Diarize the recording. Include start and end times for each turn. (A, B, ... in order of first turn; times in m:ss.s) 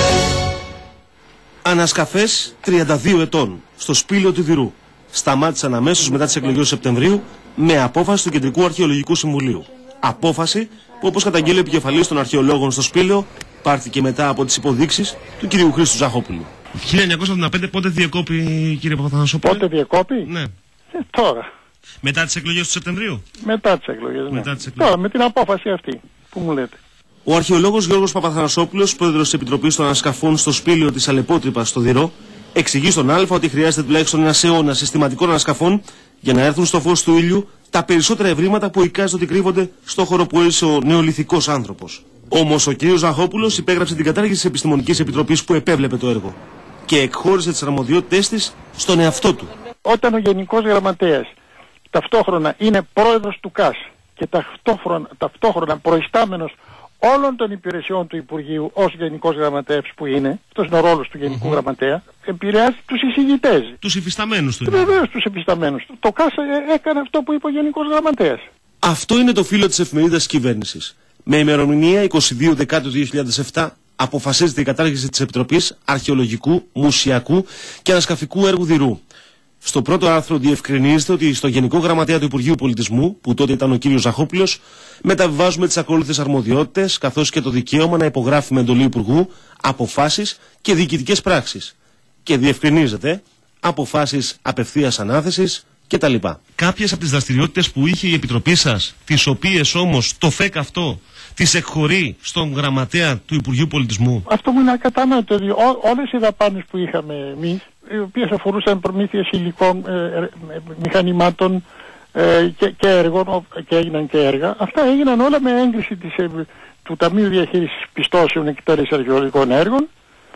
0:01.6-0:19.6 A
0:19.4-0:20.3 B
0:20.3-0:20.5 A
0:20.9-0:21.5 B
0:22.0-0:23.2 A
0:23.4-0:26.8 B
0:24.3-0:24.9 A
0:27.3-0:49.5 A
0:49.8-0:51.3 B
0:51.9-1:03.8 B
1:03.8-1:05.0 A
1:04.7-1:08.4 B
1:08.8-1:19.0 A
1:19.6-1:44.3 A
1:44.3-1:51.6 B
1:52.1-1:59.9 B